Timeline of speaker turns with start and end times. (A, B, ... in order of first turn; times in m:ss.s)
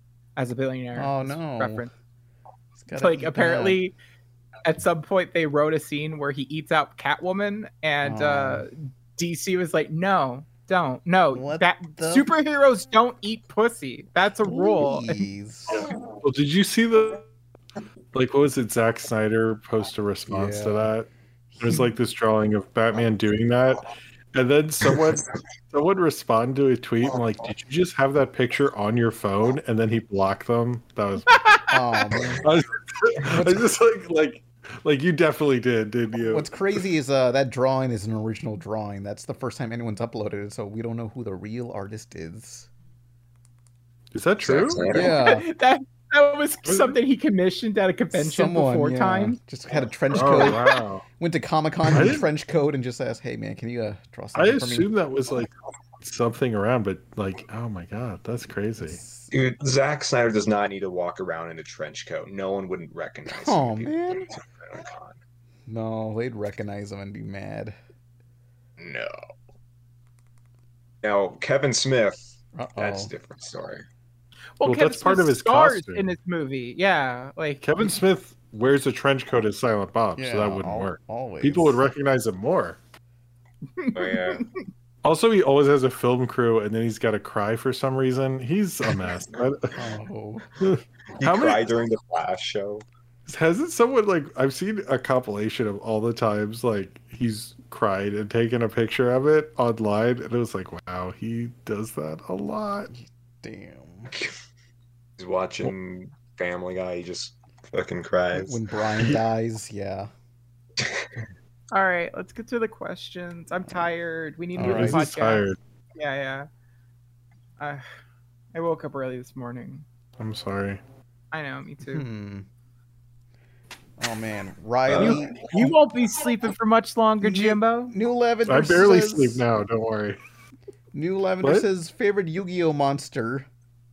0:00.4-0:01.9 A
0:01.0-0:01.9 B
0:02.8-0:03.8 B
0:03.0-0:03.9 A
0:04.6-0:15.3 A
0:08.0-0:08.7 B
0:11.3-0:12.3 B
0:14.4-0:15.8 B
0:15.7-0:17.3 C
0:18.1-0:21.1 C
0:20.3-0:20.9 B
0:21.5-0:21.8 B
0:21.6-0:31.5 C
0:31.4-0:31.7 A
0:31.7-0:32.4 B
0:32.4-0:36.8 C
0:33.3-0:33.6 B
0:36.3-0:42.7 B
0:44.1-0:44.9 C
0:44.4-0:45.1 D
0:44.9-0:45.4 B
0:44.9-0:49.4 A
0:46.6-0:47.0 C
0:48.1-0:50.6 B
0:50.1-0:51.0 C
0:51.2-0:54.9 B
0:51.9-0:52.3 C
0:54.3-0:59.0 C
0:58.8-0:59.3 B
0:59.3-1:05.2 D
1:03.3-1:04.3 B
1:05.7-1:07.8 B
1:08.8-1:09.1 D
1:11.0-1:13.8 D
1:12.5-1:13.1 B
1:14.6-1:17.6 A
1:14.6-1:16.1 C
1:17.6-1:22.8 C
1:20.2-1:21.8 B
1:23.8-1:24.5 A
1:23.9-1:24.5 D
1:25.0-1:29.8 C
1:29.7-1:30.5 B
1:30.6-1:31.7 C
1:31.2-1:32.8 D
1:33.2-1:42.9 C
1:42.9-1:44.1 B
1:45.2-1:49.2 D
1:48.3-1:50.1 B
1:50.8-1:51.0 D
1:51.7-1:55.4 A
1:54.6-1:55.1 B
1:54.6-1:55.6 C
1:56.0-1:56.5 A
1:57.6-1:57.8 A
1:58.5-1:59.8 A
2:00.2-2:00.8 C
2:01.3-2:02.0 A
2:01.8-2:02.4 B
2:04.0-2:05.5 B
2:04.9-2:05.2 D
2:05.0-2:07.9 A
2:07.2-2:09.4 B
2:08.4-2:10.2 C
2:10.9-2:13.5 B
2:11.4-2:11.7 C